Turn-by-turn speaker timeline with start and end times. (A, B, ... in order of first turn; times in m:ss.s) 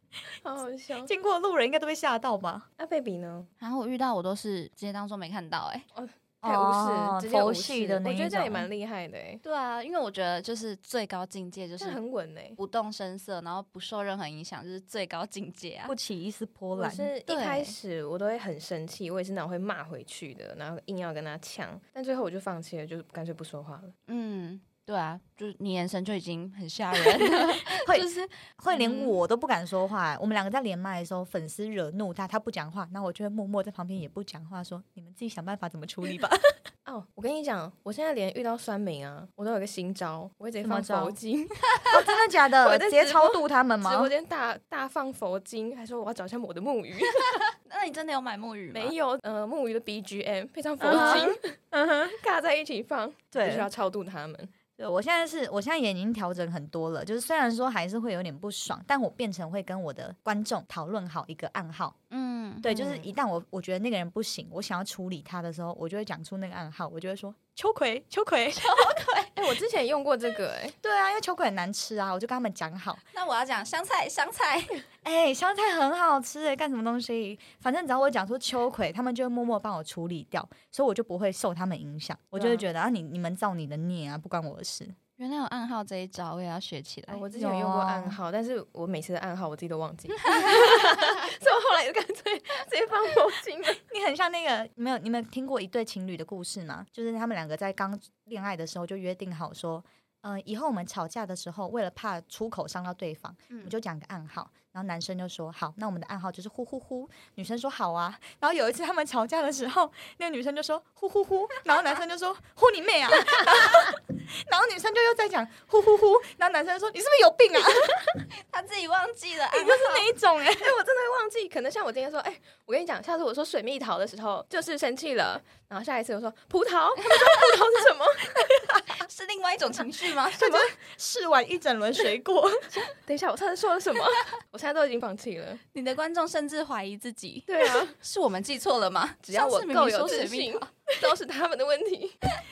0:00.4-0:01.1 A
0:01.0-0:02.7 B
0:02.8-0:03.5 A
0:03.6-0:05.9 C
0:06.0-0:09.4 A
0:06.4-0:08.7 B
0:09.4-0:12.0 C
0:11.8-0:12.6 A
0:12.6-0:16.0 C
0:15.9-0:17.1 B
0:16.7-0:23.9 A
0:17.3-0:17.8 C
0:24.1-0:29.2 C
0:27.1-0:36.6 B
0:36.8-0:47.3 A
0:40.6-0:41.2 B
0:41.9-0:44.1 B
0:47.1-0:49.0 C
0:48.7-0:51.5 A
0:50.8-0:52.2 B
0:50.9-0:51.3 C
0:52.0-0:54.5 A
0:53.3-0:53.7 B
0:54.8-1:02.0 B
1:02.1-1:03.1 C
1:02.6-1:09.0 B
1:08.6-1:09.3 C
1:09.4-1:10.8 A
1:10.8-1:13.0 B
1:13.1-1:14.8 C
1:15.0-1:25.0 B
1:22.4-1:22.6 C
1:25.2-1:27.3 C
1:27.1-1:33.8 A
1:27.3-1:28.2 B
1:33.8-1:58.1 B
1:43.5-1:43.8 C
1:58.1-2:00.1 C
1:59.5-2:00.8 B
2:00.4-2:08.6 A
2:07.1-2:07.5 C
2:08.9-2:10.5 C
2:10.4-2:12.9 B
2:10.4-2:10.7 A
2:12.8-2:15.6 A
2:15.7-2:20.7 C
2:17.5-2:18.0 A
2:19.2-2:22.2 A